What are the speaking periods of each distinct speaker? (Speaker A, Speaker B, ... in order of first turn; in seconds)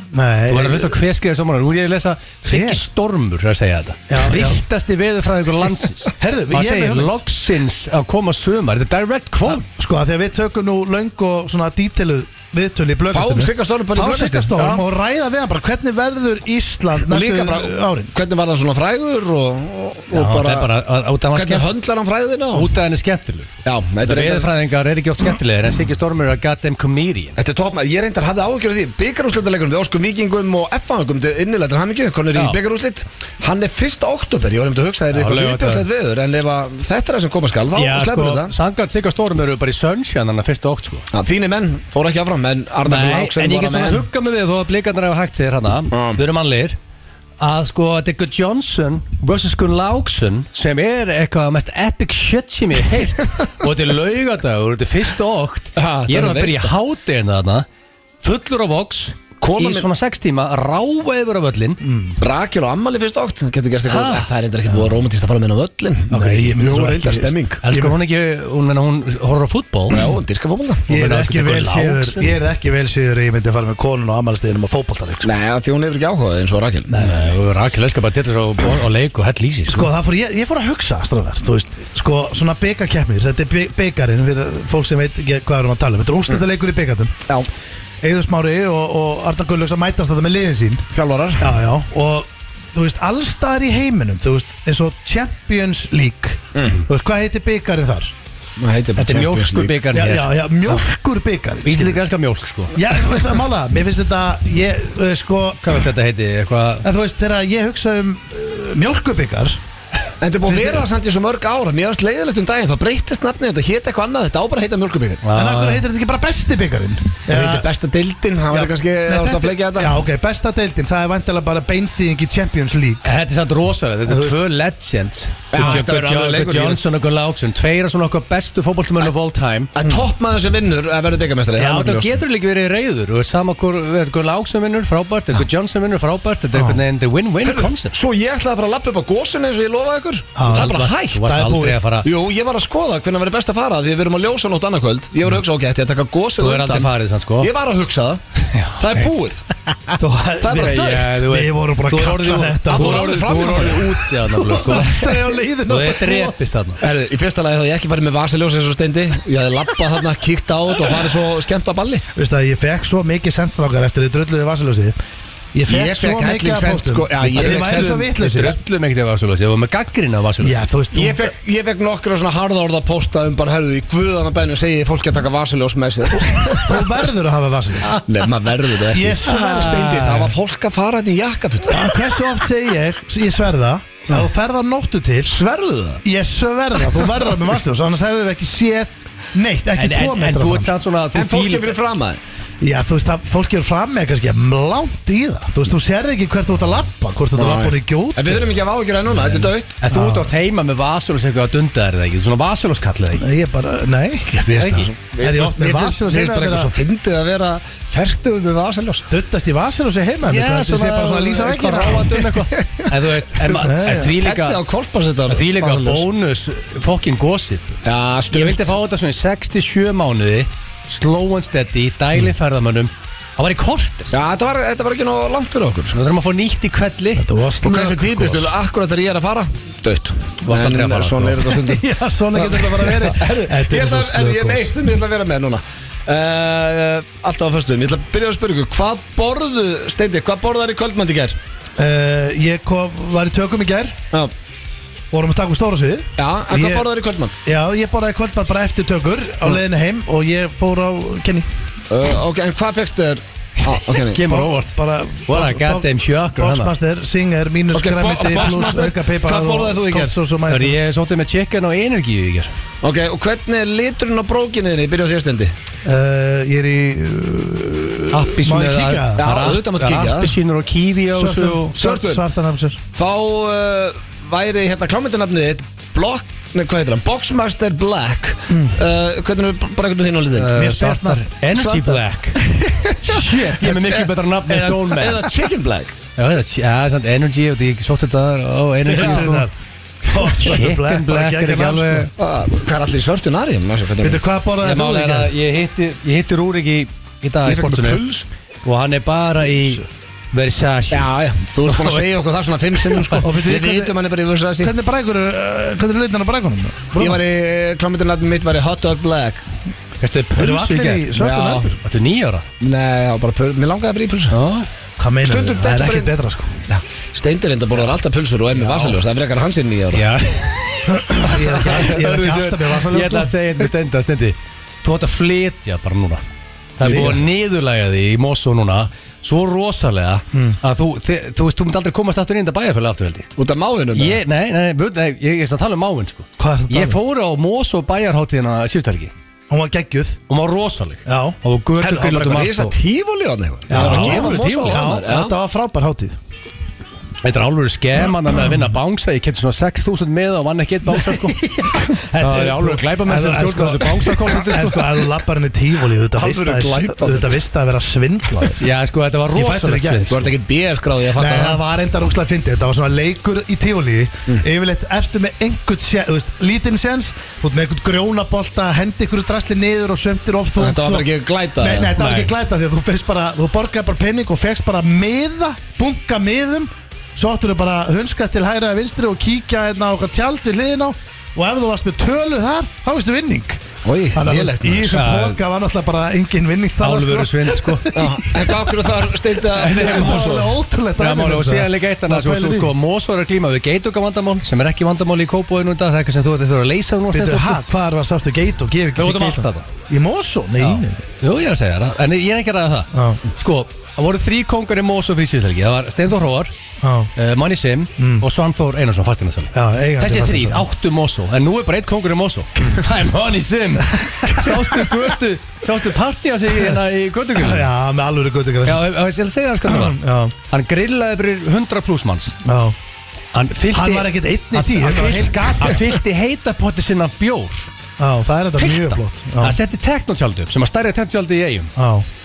Speaker A: 0.1-1.0, 2.4-2.8, 4.1-4.6, 6.2-7.2, 9.5-18.1, 61.8-62.2, 66.1-68.0, 69.9-70.2, 70.9-75.3, 76.9-77.3, 79.7-87.2, 88.0-90.8, 91.4-98.1, 99.9-102.0, 102.7-105.7, 106.8-109.6, 110.5-110.9, 115.3-117.7, 118.5-123.2, 124.0-124.4, 129.8-130.1, 136.5-136.8, 140.3-141.8, 150.0-153.2, 154.3-156.5, 162.1-164.9, 165.5-168.6, 170.4-171.3, 176.2-177.9, 178.9-179.9, 181.7-185.3, 186.0-190.7, 192.6-198.5, 199.9-200.3, 203.2-206.7, 209.1-212.2, 213.5-214.1, 227.2-228.5, 231.5-234.7, 241.8-244.0, 245.1-246.8, 247.4-251.5, 254.2-260.8, 265.8-269.3, 271.1-272.8, 278.5-278.8, 280.5-281.2, 288.8-289.5, 290.0-292.1, 294.0-295.3, 303.2-303.9, 304.6-307.2, 310.3-311.8, 315.0-316.6, 318.5-319.0, 320.9-323.3, 326.8-327.2, 330.3-330.6, 336.4-337.0, 339.5-340.2, 341.1-341.4, 343.7-346.2, 351.1-358.6, 359.3-360.3, 361.1-383.6, 384.1-388.7, 389.5-392.7, 397.1-401.0, 402.9-403.2, 406.8-407.1, 408.0-408.2, 409.5-410.7, 414.0-414.9, 417.4-418.9, 419.6-420.3, 422.4-422.8, 423.7-425.8, 428.0-429.6, 431.8-432.1
Speaker B: 0.5-9.7, 20.1-21.7, 22.5-23.5, 24.0-27.4, 35.1-35.8, 37.8-41.0, 42.8-46.8, 47.4-57.6, 58.2-61.8, 63.9-64.3, 67.6-70.0, 70.9-72.3, 76.9-79.9, 99.0-100.3, 101.6-102.7, 105.6-106.8, 115.2-115.8, 123.0-129.7, 131.6-137.9, 140.4-142.1, 146.4-147.5, 148.6-149.1, 150.5-155.1, 155.7-156.8, 167.3-170.7, 179.2-180.3, 189.8-191.7, 199.8-203.2, 204.6-204.8, 210.2-214.6, 215.3-217.7, 218.3-224.1, 225.9-227.2, 230.4-231.4, 253.9-254.7, 255.3-256.7, 258.4-258.7, 260.5-262.5, 268.1-271.8, 280.4-282.4, 283.0-285.2, 286.1-289.5, 290.2-292.1, 294.6-298.0, 298.6-301.1, 301.6-302.1, 302.8-303.2, 310.0-312.4, 314.3-314.7, 319.9-326.2, 326.8-333.3, 333.9-339.1, 340.3-342.7, 343.7-344.9, 347.2-351.4, 352.2-354.9, 358.6-360.1, 372.0-372.3, 384.9-385.4, 386.8-387.9, 389.6-390.3, 391.0-397.6, 399.0-399.7, 400.6-406.5, 407.1-417.7, 418.6-422.4, 423.3-427.7, 428.6-431.7
Speaker C: 13.1-14.8, 17.0-20.7, 21.3-22.7, 23.6-24.5, 27.4-38.5, 41.1-44.0, 45.9-46.2, 55.8-56.7, 59.4-59.9, 62.2-67.6, 69.9-70.8, 75.2-76.9, 90.9-91.5, 96.5-96.8, 98.6-99.8, 110.2-115.2, 117.3-120.0, 125.5-126.8, 129.8-132.2, 137.4-141.2, 142.0-148.2, 148.8-149.4, 150.4-151.2, 152.7-154.1, 156.8-162.0, 165.7-168.0, 170.9-176.9, 178.1-182.1, 185.2-186.0, 191.1-192.2, 197.3-199.8, 204.3-209.1, 212.5-212.9, 213.9-216.1, 217.8-218.7, 224.1-225.9, 227.6-241.4, 246.2-247.4, 251.9-254.2, 257.7-260.1, 262.8-265.5, 269.2-270.3, 271.8-272.2, 272.9-280.5, 281.6-285.9, 288.9-289.3, 292.2-294.2, 297.4-298.3, 300.9-304.7, 307.0-309.4, 311.2-311.7, 312.6-314.3, 315.2-316.1, 316.7-320.0, 321.3-321.9, 326.8-327.2, 333.4-334.2, 341.8-345.3, 356.1-357.4, 360.1-361.6, 370.6-371.9, 383.8-385.0, 387.9-390.5